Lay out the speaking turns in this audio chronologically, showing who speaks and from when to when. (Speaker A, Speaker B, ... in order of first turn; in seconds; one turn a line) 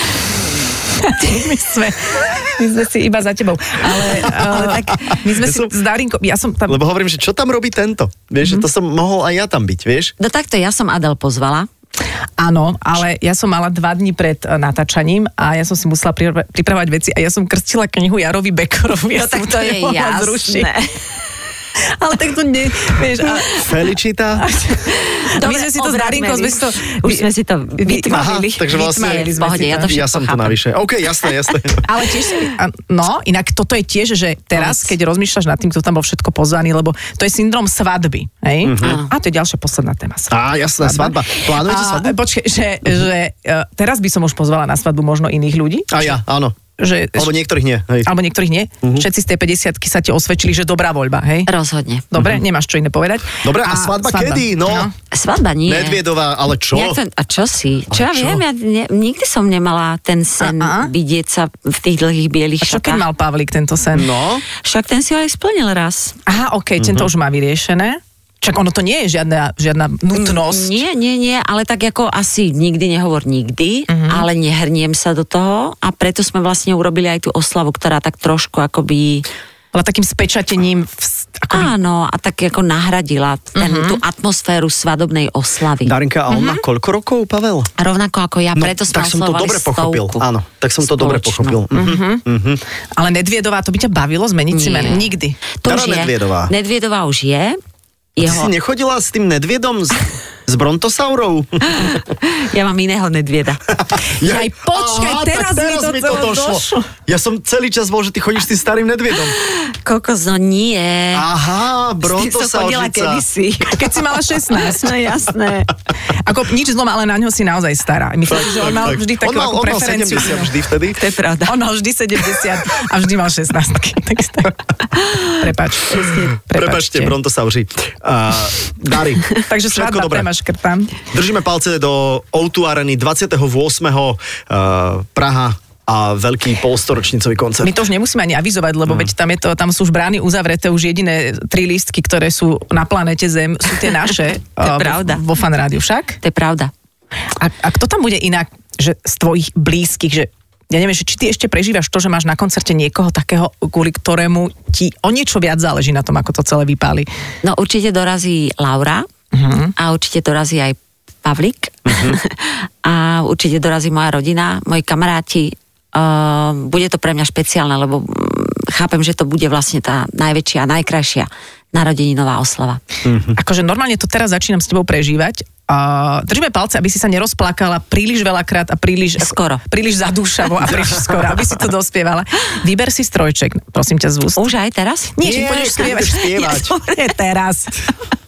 Speaker A: 1.0-6.8
Speaker B: 4.2-5.7
Speaker C: 4.4-5.2
Speaker B: 6.7-10.1
Speaker C: 10.2-11.7
Speaker A: 12.4-20.7
Speaker C: 19.1-20.9
Speaker A: 21.9-23.8
Speaker B: 23.6-24.5
Speaker A: 24.4-27.3
Speaker C: 24.9-30.6
Speaker A: 27.8-30.0
Speaker B: 28.1-31.9
Speaker A: 31.8-46.2
Speaker C: 34.6-34.9
Speaker B: 38.6-39.0
Speaker C: 38.8-39.1
Speaker B: 40.3-42.2
Speaker B: 45.9-46.6
Speaker A: 46.8-47.3
Speaker B: 47.1-48.1
Speaker A: 48.0-51.5
Speaker C: 51.5-52.0
Speaker A: 52.1-54.9
Speaker B: 53.4-54.9
Speaker C: 55.1-56.0
Speaker B: 55.7-57.0
Speaker C: 56.7-63.0
Speaker B: 57.9-58.4
Speaker A: 60.4-60.9
Speaker A: 62.6-64.1
Speaker B: 63.9-64.5
Speaker C: 64.6-66.2
Speaker A: 66.3-70.8
Speaker B: 66.8-67.1
Speaker C: 70.1-79.2
Speaker A: 73.9-74.3
Speaker A: 79.7-81.7
Speaker C: 81.5-85.9
Speaker A: 83.6-84.0
Speaker B: 85.8-87.7
Speaker A: 86.3-86.6
Speaker C: 87.8-90.2
Speaker B: 88.6-92.6
Speaker C: 90.8-91.6
Speaker A: 91.7-92.2
Speaker A: 93.0-95.4
Speaker C: 94.5-97.6
Speaker B: 95.7-96.5
Speaker C: 98.2-98.5
Speaker B: 98.2-102.0
Speaker C: 101.7-103.6
Speaker B: 103.7-109.3
Speaker A: 104.2-106.9
Speaker C: 109.4-111.3
Speaker B: 111.1-113.2
Speaker C: 112.0-113.9
Speaker A: 113.7-115.0
Speaker C: 114.5-115.7
Speaker A: 116.1-120.5
Speaker B: 118.3-121.0
Speaker C: 121.0-121.6
Speaker A: 121.5-124.6
Speaker C: 125.0-125.4
Speaker A: 125.2-127.1
Speaker B: 126.5-130.3
Speaker A: 129.5-131.0
Speaker B: 131.1-137.8
Speaker A: 137.6-146.2
Speaker C: 144.6-145.2
Speaker C: 146.2-146.7
Speaker A: 147.4-157.1
Speaker C: 157.4-159.1
Speaker A: 159.3-159.7
Speaker C: 159.8-172.8
Speaker B: 161.9-162.2
Speaker B: 173.1-173.4
Speaker A: 173.3-184.5
Speaker C: 179.2-179.6
Speaker B: 180.7-181.4
Speaker C: 184.3-185.2
Speaker A: 185.2-187.9
Speaker B: 185.2-186.7
Speaker C: 185.8-187.1